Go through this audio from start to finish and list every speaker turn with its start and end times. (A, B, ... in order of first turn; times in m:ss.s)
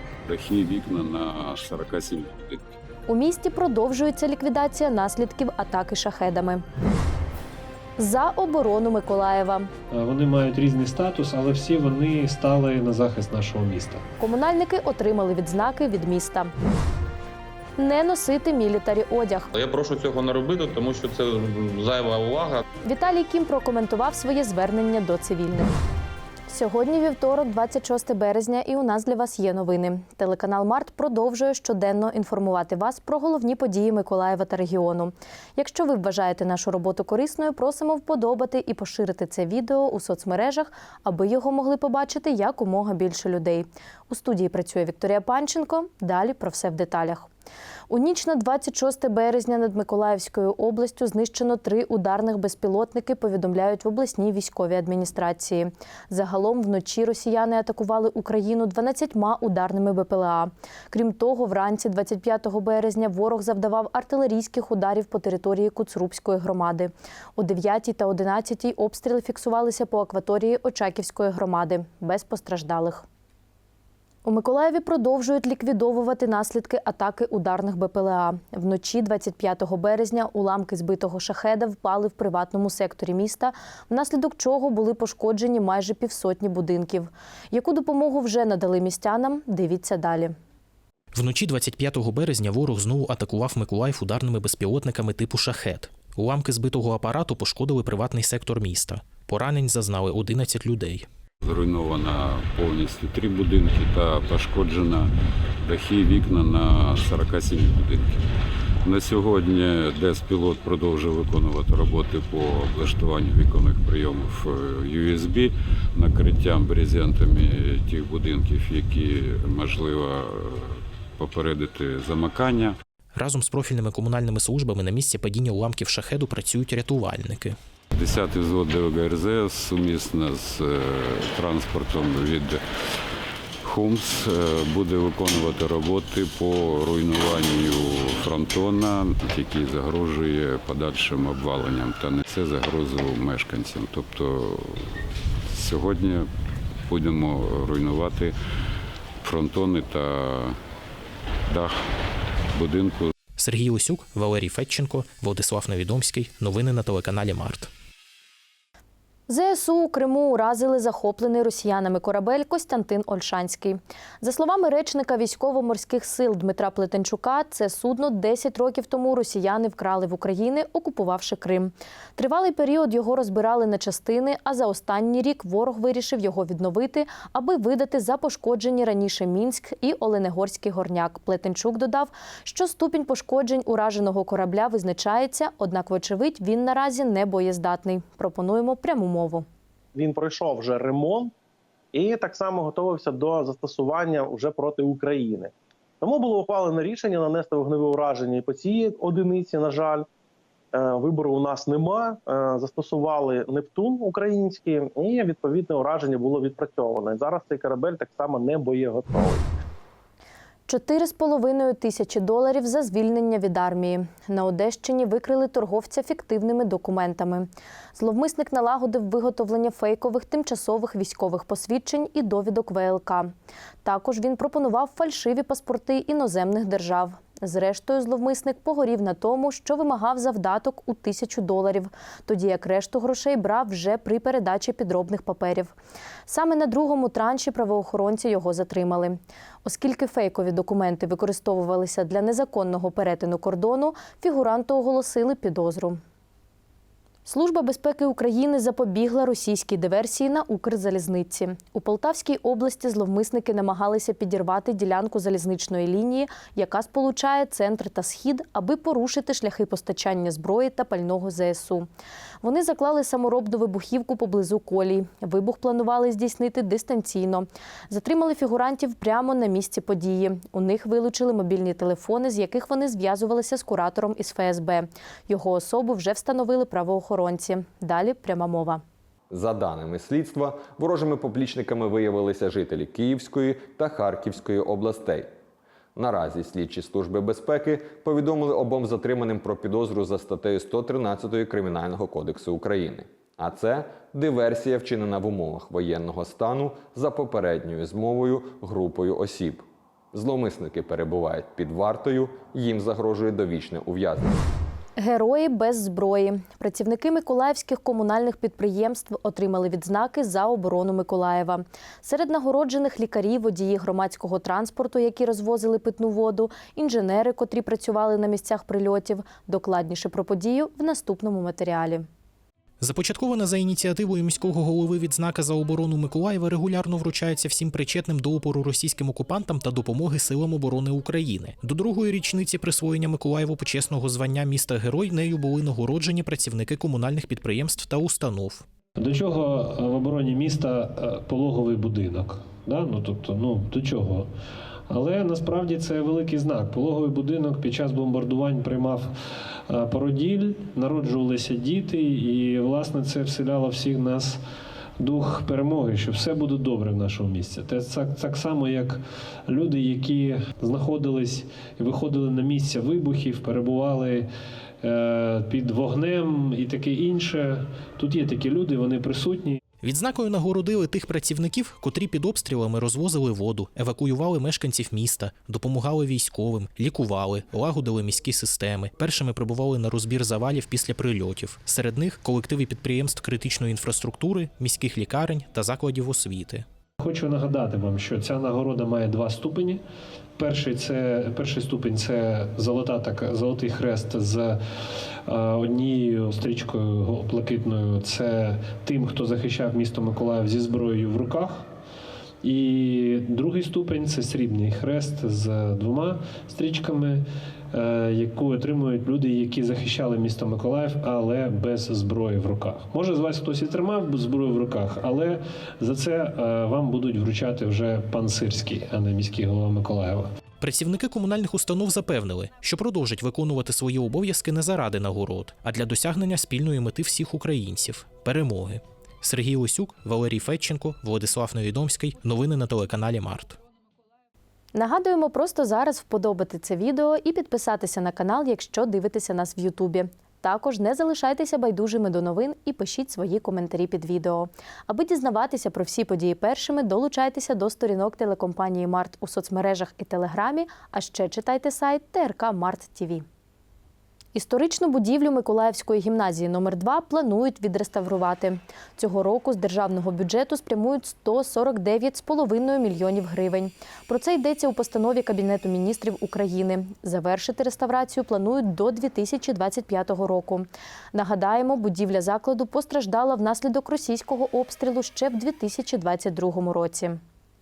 0:00.3-0:02.6 A
0:03.1-0:06.6 B
0:08.0-0:09.7 B
0:09.9-0:14.0 C
0:14.2-0:16.5 B
0:17.8-0:19.5 B
0:19.5-0:22.6 D
0:22.9-0:25.7 B
0:26.5-0:47.3 B
0:47.9-1:13.1 B
1:14.2-1:30.3 B
1:31.1-1:41.1 E
1:41.4-1:45.1 A
1:45.6-1:48.2 A
1:48.8-2:02.8 A
2:03.1-2:07.6 E
2:08.0-2:12.6 A
2:13.6-2:24.9 A
2:25.5-2:26.3 A
2:26.9-2:28.4 A
2:29.2-2:30.6 A
2:31.5-2:31.8 A
2:32.5-2:33.1 A
2:33.4-2:37.7 E
2:39.3-3:09.4 B
3:10.0-3:11.3 F
3:11.9-3:20.1 F
3:20.7-3:29.5 F
3:30.7-3:43.3 B
3:43.8-3:55.7 B
3:56.3-4:06.0 B
4:07.2-4:21.9 B
4:22.4-4:38.8 B
4:39.3-4:45.3 G
4:46.0-5:04.4 G
5:05.0-5:22.0 B
5:22.8-5:38.6 E
5:39.0-5:44.3 C
5:44.9-5:49.1 C
5:49.7-5:54.4 C
5:55.0-6:04.3 C
6:04.8-6:09.6 C
6:09.8-6:26.6 E
6:27.0-6:29.8 C
6:30.4-6:34.6 C
6:35.3-6:41.6 C
6:42.4-7:00.3 C
7:00.6-7:13.6 E
7:14.8-7:33.2 B
7:34.4-7:57.2 B